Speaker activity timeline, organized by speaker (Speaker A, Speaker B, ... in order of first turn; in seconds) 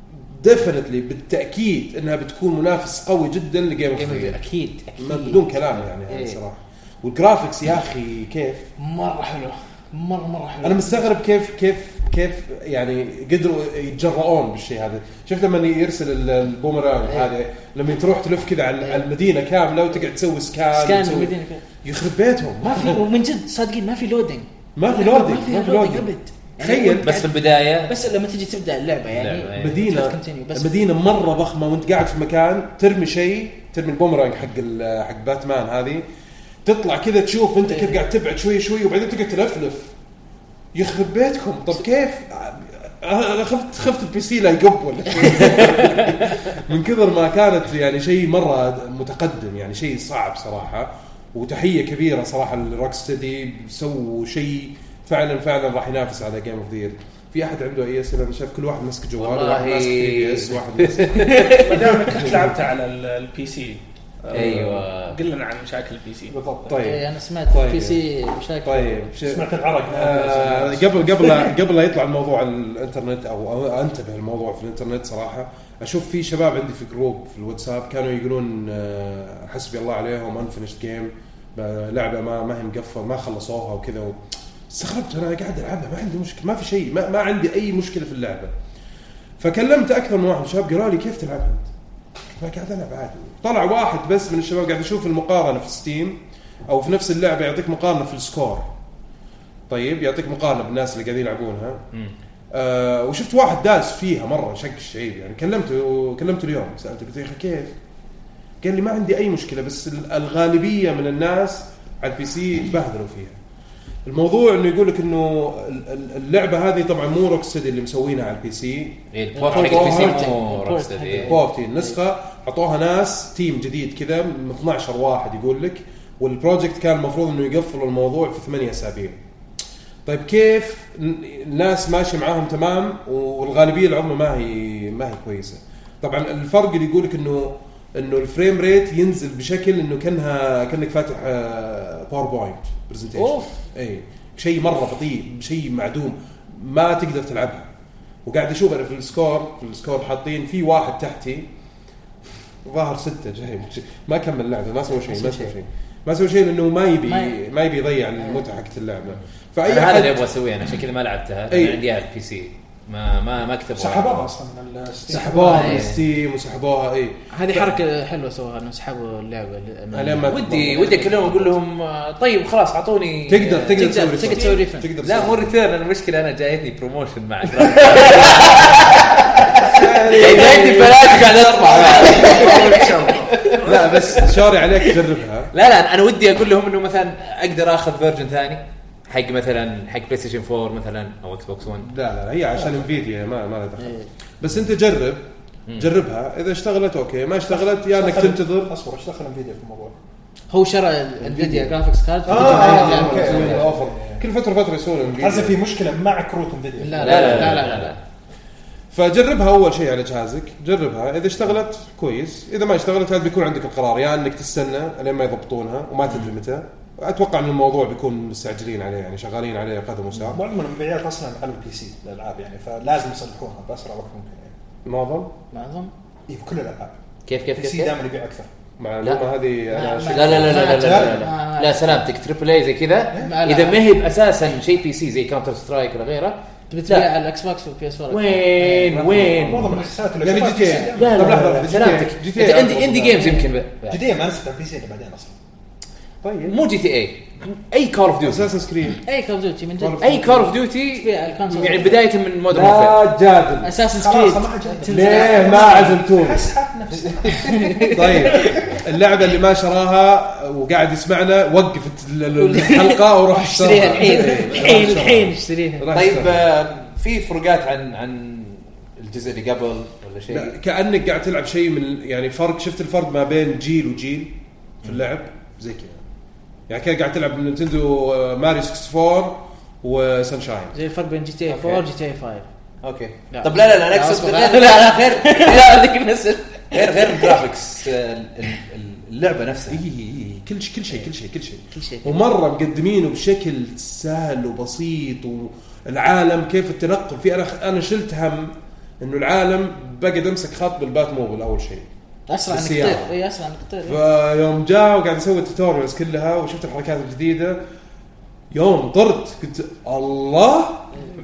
Speaker A: 0.2-4.4, 5.0-8.7, 10.6-23.0, 24.8-27.1, 29.5-36.0, 36.6-39.9, 40.7-62.6, 64.3-64.8, 66.7-68.0, 68.6-84.2, 84.7-88.5, 89.4-91.7, 92.4-98.7, 99.7-101.8, 102.5-107.8, 108.6-113.4, 114.0-120.3, 121.2-129.2, 130.1-147.7, 148.3-151.5, 152.7-160.2, 161.5-161.8, 165.1-167.8, 169.9-171.5, 173.3-175.5, 179.6-182.2, 183.6-185.5, 191.8-198.7, 201.2-201.7, 202.2-205.6, 207.1-207.5, 208.9-220.4, 224.8-225.3, 228.8-230.7, 240.2-243.3, 246.2-246.6, 248.2-249.0, 249.8-250.2, 252.5-253.7, 254.9-256.5, 257.9-266.5, 270.3-276.0, 276.7-280.8, 289.7-301.9, 302.5-303.1, 303.9-307.6, 308.5-310.9
Speaker B: 3.9-6.4, 8.8-11.1, 18.8-19.1, 20.7-21.6, 22.6-27.3, 27.9-30.8, 37.7-38.0, 66.8-69.1, 119.3-122.0, 143.2-143.5, 155.0-155.5, 157.1-157.4, 165.2-166.0, 167.3-171.3, 173.7-174.9, 182.3-182.8, 193.8-194.1, 200.5-203.7, 206.8-208.0, 225.5-225.9, 229.7-232.0, 233.2-233.8, 236.7-239.2, 242.9-243.5, 249.0-252.0, 253.6-256.0, 257.3-258.5, 262.4-265.9, 280.7-282.5, 283.3-287.4, 291.7-292.2, 302.3-304.0
Speaker C: 27.0-28.0, 29.1-29.8, 59.2-62.0, 64.3-65.2, 119.1-121.3, 159.7-164.3, 165.5-165.9, 170.3-185.0, 185.5-191.9, 207.0-208.0, 227.3-227.9, 229.9-237.1, 238.1-239.9, 240.9-244.0, 246.5-248.5, 250.0-253.0, 257.3-257.7, 264.1-264.9, 265.9-270.5, 281.5-281.8, 282.8-286.0, 286.7-289.8
Speaker D: 61.5-66.4, 182.1-183.6
Speaker E: 66.3-66.8, 69.2-71.5, 163.8-165.9, 197.5-200.0, 202.3-204.2, 205.2-207.7, 220.2-224.5, 226.3-227.0, 227.5-228.5, 230.5-231.3, 238.9-242.0, 243.9-245.3, 253.9-258.8